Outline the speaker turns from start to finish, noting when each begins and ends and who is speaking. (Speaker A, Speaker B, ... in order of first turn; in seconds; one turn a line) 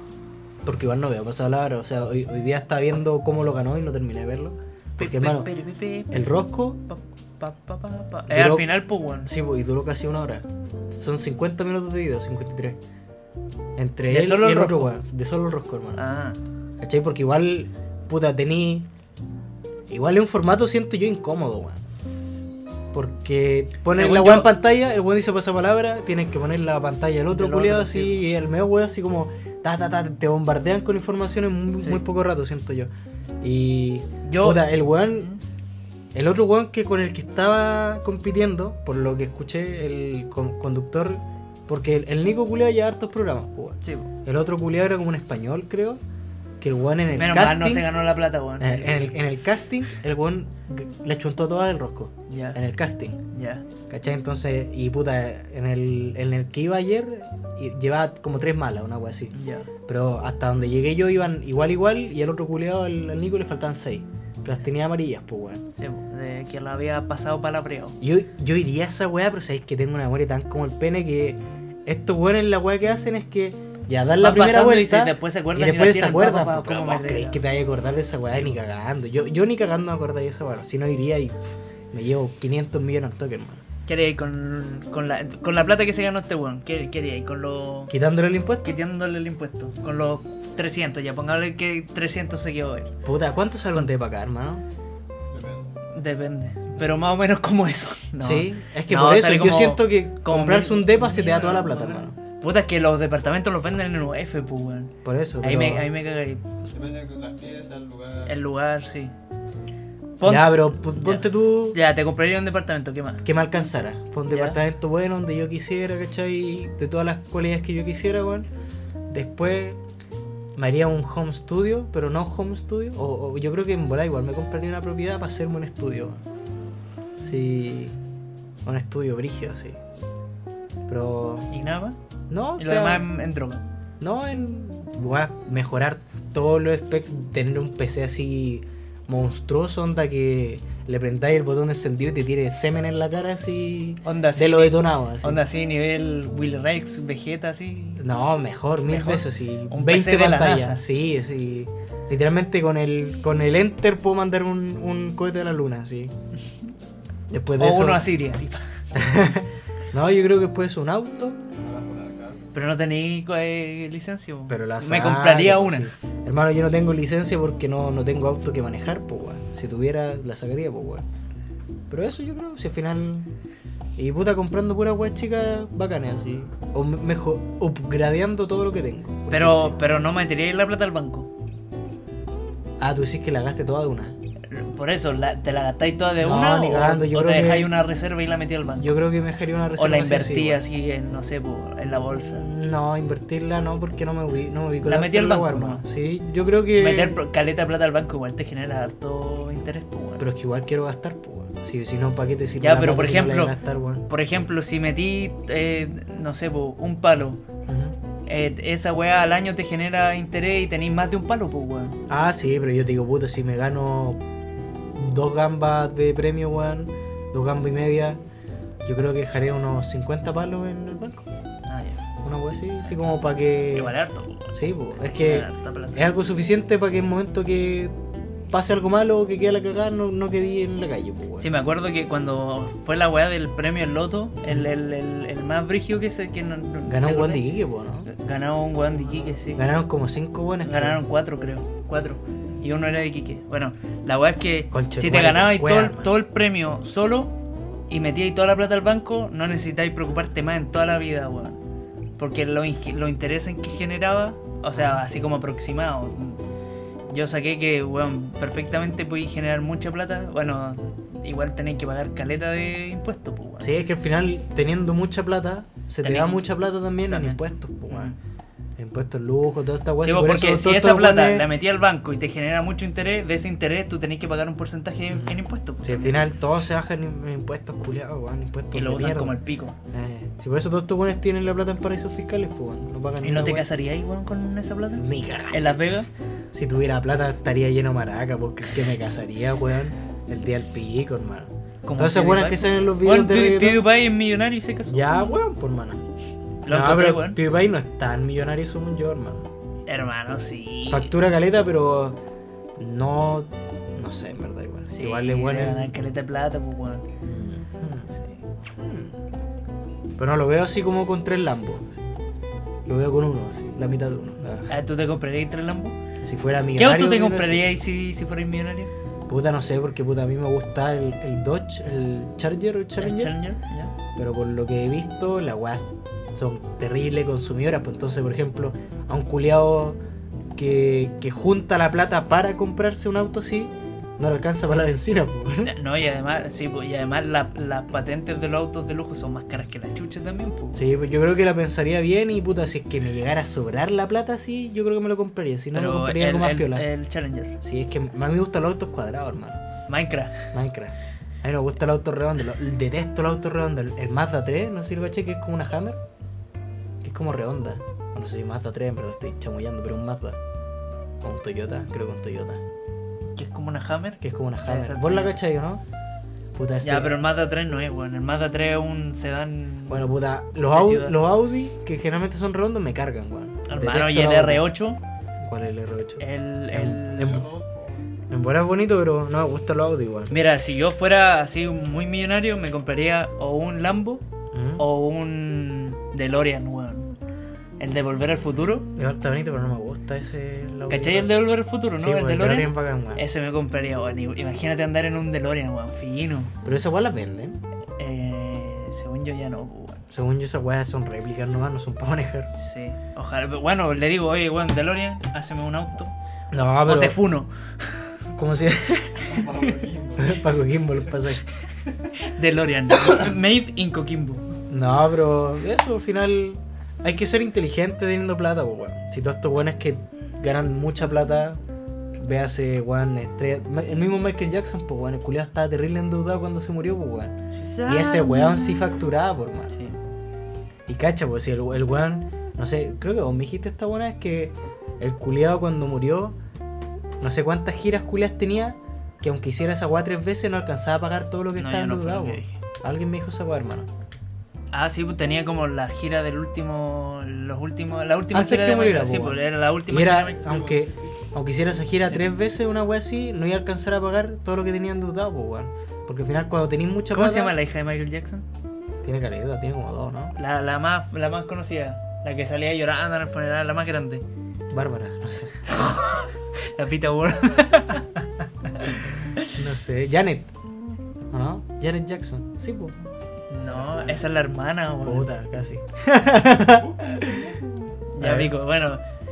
Speaker A: 0.6-5.5
Speaker B: 5.0-6.2
Speaker A: 6.1-6.8
Speaker B: 6.9-9.3
Speaker A: 8.3-12.8
Speaker A: 13.8-16.0
Speaker B: 14.1-14.9
Speaker B: 16.0-16.4
Speaker A: 16.8-18.9
Speaker A: 19.9-21.8
Speaker A: 22.9-32.9
Speaker B: 23.9-24.5
Speaker B: 27.3-28.2
Speaker B: 31.8-32.0
Speaker A: 33.4-35.3
Speaker B: 34.2-35.4
Speaker A: 36.1-46.0
Speaker B: 43.8-44.1
Speaker A: 46.6-47.9
Speaker B: 47.2-49.2
Speaker A: 48.6-53.2
Speaker B: 52.3-52.6
Speaker B: 53.3-53.6
Speaker A: 53.9-59.3
Speaker B: 59.3-59.7
Speaker A: 59.9-65.6
Speaker B: 65.8-68.0
Speaker A: 68.0-83.6
Speaker B: 74.2-77.4
Speaker B: 78.2-78.5
Speaker B: 83.9-87.9
Speaker A: 87.9-88.8
Speaker B: 88.6-92.9
Speaker A: 93.0-94.6
Speaker C: 95.3-95.7
Speaker B: 95.9-106.4
Speaker A: 98.2-102.2
Speaker A: 105.0-105.9
Speaker C: 106.7-108.3
Speaker B: 108.3-109.1
Speaker B: 110.2-113.2
Speaker A: 110.2-111.8
Speaker A: 113.2-118.5
Speaker B: 114.3-114.6
Speaker A: 119.1-119.8
Speaker A: 120.6-126.2
Speaker A: 127.2-128.0
Speaker A: 128.7-129.8
Speaker A: 130.9-131.5
Speaker B: 131.5-132.0
Speaker A: 132.3-133.1
Speaker B: 132.6-133.6
Speaker A: 134.0-145.4
Speaker B: 144.0-148.1
Speaker A: 148.0-156.1
Speaker B: 148.9-150.8
Speaker A: 157.3-158.1
Speaker B: 157.6-158.7
Speaker A: 158.9-161.4
Speaker C: 161.6-162.5
Speaker B: 162.5-165.9
Speaker A: 164.5-171.1
Speaker A: 171.9-173.3
Speaker A: 174.0-179.8
Speaker B: 179.3-181.3
Speaker A: 182.8-184.2
Speaker B: 184.5-189.0
Speaker A: 186.2-187.7
Speaker A: 188.8-190.6
Speaker B: 189.8-192.5
Speaker A: 192.1-197.2
Speaker B: 194.8-195.8
Speaker B: 196.8-200.2
Speaker A: 200.2-204.1
Speaker B: 202.6-203.6
Speaker B: 204.1-207.4
Speaker A: 207.7-208.0
Speaker B: 208.3-212.0
Speaker A: 212.1-214.2
Speaker A: 214.9-218.2
Speaker A: 218.8-221.3
Speaker B: 221.7-222.0
Speaker A: 222.2-223.9
Speaker B: 223.7-226.1
Speaker A: 224.5-228.0
Speaker A: 228.5-231.5
Speaker B: 231.4-237.4
Speaker A: 236.9-238.1
Speaker B: 238.1-239.7
Speaker A: 239.5-241.0
Speaker B: 240.6-247.3
Speaker A: 244.7-246.1
Speaker B: 247.9-251.6
Speaker B: 252.2-256.4
Speaker A: 254.7-255.0
Speaker B: 257.1-263.7
Speaker A: 263.6-268.1
Speaker B: 266.0-266.5
Speaker B: 267.1-268.2
Speaker A: 268.8-271.5
Speaker B: 270.0-276.3
Speaker A: 275.1-279.4
Speaker B: 278.7-279.8
Speaker A: 279.9-283.7
Speaker B: 283.2-286.1
Speaker A: 285.0-285.9
Speaker A: 286.5-293.8
Speaker B: 291.9-295.4
Speaker A: 294.9-296.0
Speaker B: 296.6-297.4
Speaker A: 296.7-299.5
Speaker B: 299.9-301.1
Speaker A: 300.9-302.2
Speaker A: 302.8-305.9
Speaker B: 304.9-307.1
Speaker A: 307.2-308.1
Speaker B: 308.1-308.4
Speaker A: 308.8-309.1
Speaker A: 310.2-312.1
Speaker A: 312.9-314.7
Speaker B: 314.7-316.0
Speaker A: 316.2-317.6
Speaker B: 316.8-318.9
Speaker A: 319.3-323.4
Speaker B: 323.0-323.9
Speaker A: 324.2-330.0
Speaker A: 330.6-335.7
Speaker B: 335.6-340.8
Speaker A: 340.8-346.9
Speaker B: 345.7-347.6
Speaker A: 347.6-349.6
Speaker B: 349.9-350.5
Speaker A: 350.5-356.0
Speaker A: 357.0-360.4
Speaker A: 361.2-362.6
Speaker B: 363.4-365.4
Speaker A: 364.2-365.8
Speaker A: 366.6-367.1
Speaker B: 366.8-370.1
Speaker A: 369.9-374.7
Speaker B: 370.7-371.2
Speaker B: 373.7-375.0
Speaker A: 375.4-377.5
Speaker B: 376.2-377.4
Speaker C: 377.1-378.1
Speaker A: 378.3-380.3
Speaker B: 380.3-384.2
Speaker A: 384.5-384.9
Speaker B: 384.8-387.1
Speaker B: 387.8-388.9
Speaker A: 389.0-391.4
Speaker B: 390.9-396.5
Speaker A: 391.9-393.2
Speaker A: 396.6-397.6
Speaker B: 398.0-400.1
Speaker A: 400.1-402.5
Speaker B: 402.5-406.1
Speaker A: 406.5-407.2
Speaker B: 406.8-408.1
Speaker A: 408.4-409.4
Speaker C: 409.2-411.1
Speaker A: 410.2-411.4
Speaker B: 412.2-414.5
Speaker A: 414.7-421.6
Speaker A: 422.2-429.7
Speaker B: 427.5-429.0
Speaker B: 429.7-430.0
Speaker A: 430.9-436.4
Speaker A: 437.2-443.9
Speaker B: 441.6-442.6
Speaker B: 444.7-450.6
Speaker A: 448.3-457.6
Speaker C: 450.3-451.2
Speaker B: 457.1-458.4
Speaker A: 459.0-460.4
Speaker B: 460.4-464.2
Speaker A: 464.7-465.6
Speaker B: 465.7-468.2
Speaker A: 469.5-470.5
Speaker A: 471.3-472.9
Speaker B: 473.5-475.3
Speaker A: 473.7-474.2
Speaker A: 475.0-477.5
Speaker C: 476.7-477.6
Speaker B: 478.1-479.0
Speaker A: 478.2-478.5